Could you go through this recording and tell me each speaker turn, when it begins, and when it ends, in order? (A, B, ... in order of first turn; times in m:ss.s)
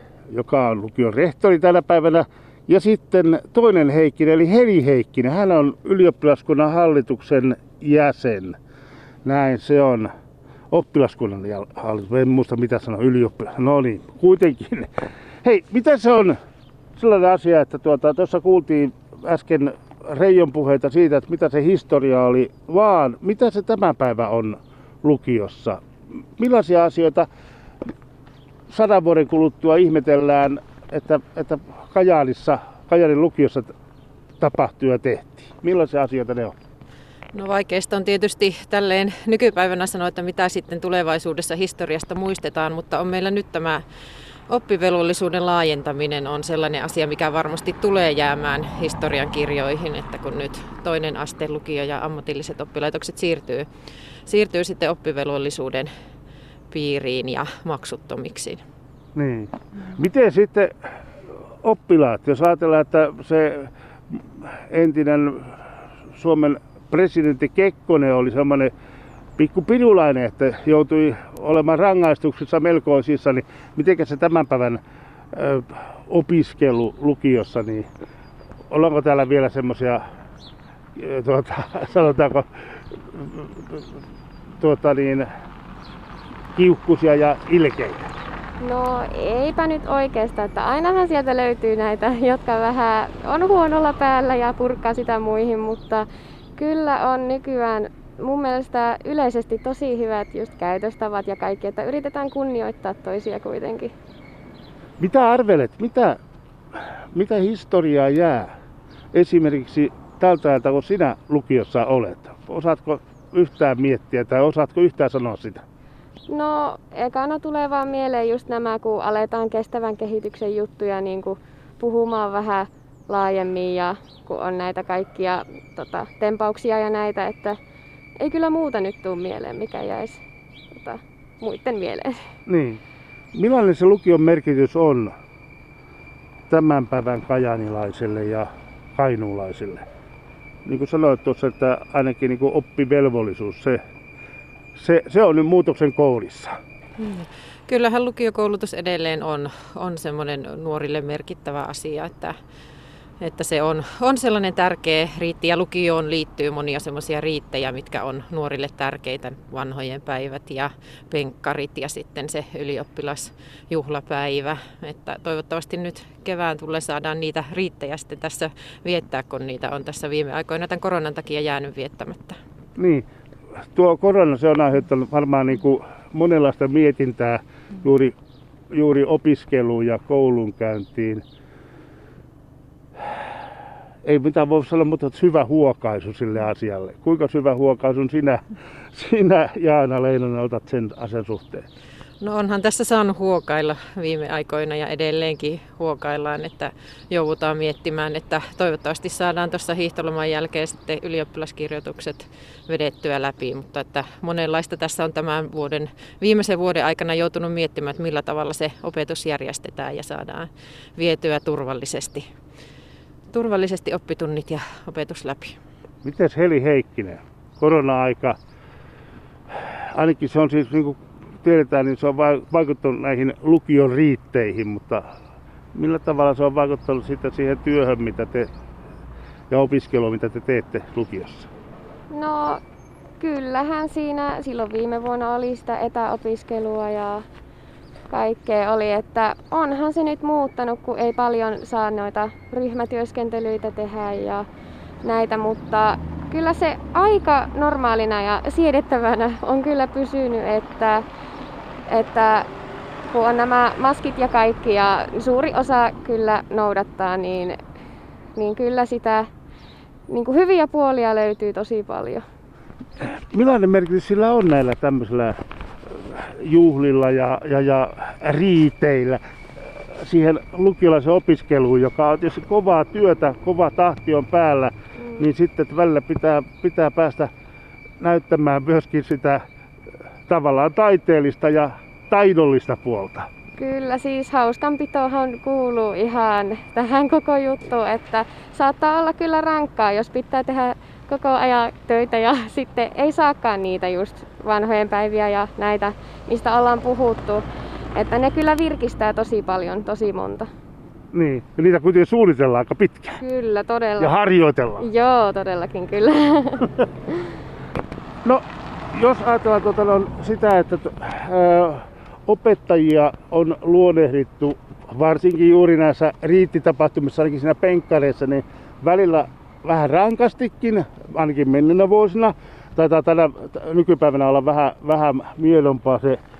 0:00.3-0:08.6 A
0:09.2-0:10.1 A
0:10.7-0:14.9 A
0:15.4-0:16.4 A
0:17.0-0:25.8 A
0:26.4-0:27.3 A
0:28.7-0:33.7 A
0:34.4-0:36.5 A
0:37.3-0:43.8 B
0:44.5-0:53.7 B
0:54.2-0:55.9 B
0:56.7-0:58.6 B
0:59.1-1:00.7 A
1:01.6-1:05.6 A
1:06.2-1:08.7 A
1:09.4-1:14.8 A
1:15.3-1:17.8 A
1:18.7-1:20.0 A
1:21.0-1:22.5 A
1:23.1-1:23.8 A
1:24.6-1:25.3 A
1:26.5-1:28.1 A
1:28.6-1:43.9 C
1:45.0-1:46.2 A
1:47.1-1:48.5 A
1:49.1-1:55.6 A
1:56.3-2:07.6 C
2:08.2-2:10.2 C
2:10.7-2:12.2 C
2:12.5-2:12.8 A
2:13.3-2:15.1 A
2:16.5-2:19.8 A
2:20.6-2:23.8 A
2:24.8-2:26.5 A
2:27.0-2:32.3 B
2:33.2-2:52.4 B
2:52.8-2:53.0 A
2:53.7-2:58.1 A
2:58.7-3:01.2 A
3:04.0-3:11.6 A
3:12.2-3:32.2 B
3:33.3-3:35.6 B
3:36.0-3:38.4 A
3:39.8-3:45.0 A
3:45.7-3:48.5 A
3:49.5-3:51.5 A
3:52.1-3:52.6 C
3:53.2-3:57.2 C
3:58.1-4:04.4 C
4:05.0-4:11.0 C
4:11.9-4:12.5 C
4:13.1-4:17.6 C
4:18.3-4:19.3 C
4:20.1-4:22.2 C
4:23.0-4:25.4 A
4:25.9-4:29.2 A
4:29.9-4:37.3 A
4:38.0-4:39.4 A
4:40.3-4:43.3 A
4:43.6-5:00.5 C
5:01.1-5:03.2 A
5:03.2-5:04.1 C
5:04.0-5:04.9 A
5:04.8-5:06.7 C
5:08.2-5:26.2 A